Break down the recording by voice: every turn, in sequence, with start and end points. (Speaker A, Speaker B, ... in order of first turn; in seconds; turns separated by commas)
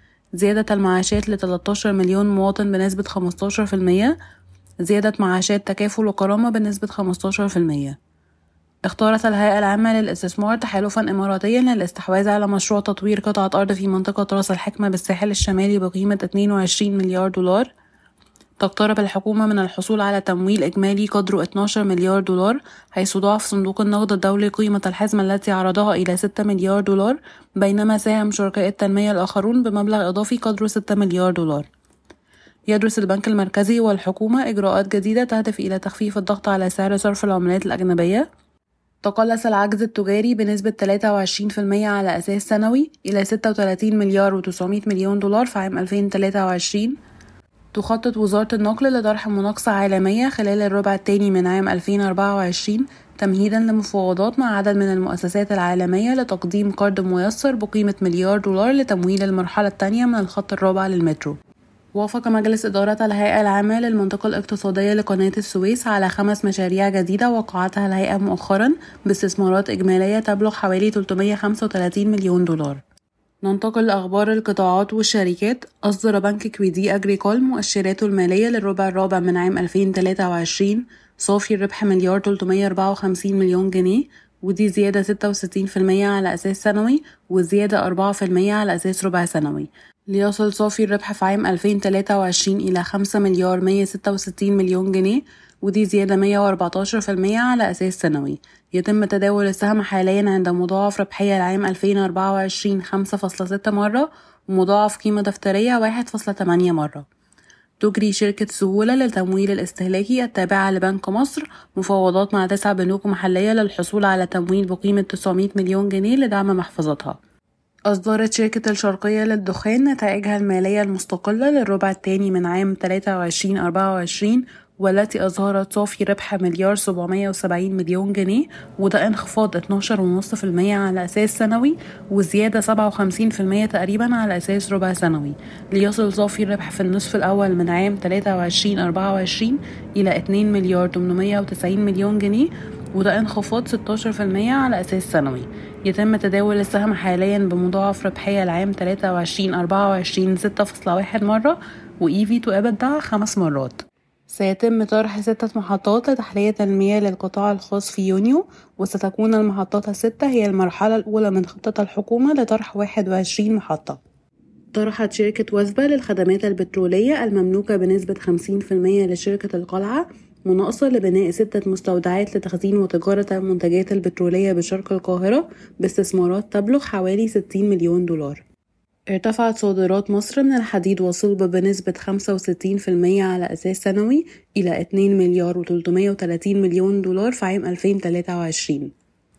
Speaker A: 0.3-4.2, Speaker A: 4.8-8.0, Speaker A: 8.9-17.7, Speaker A: 18.6-31.7, Speaker A: 32.7-38.2, Speaker A: 39.0-47.0, Speaker A: 47.7-61.4, Speaker A: 62.0-72.8, Speaker A: 73.4-107.0, Speaker A: 107.8-117.2, Speaker A: 117.9-164.0, Speaker A: 164.7-178.4, Speaker A: 179.1-188.9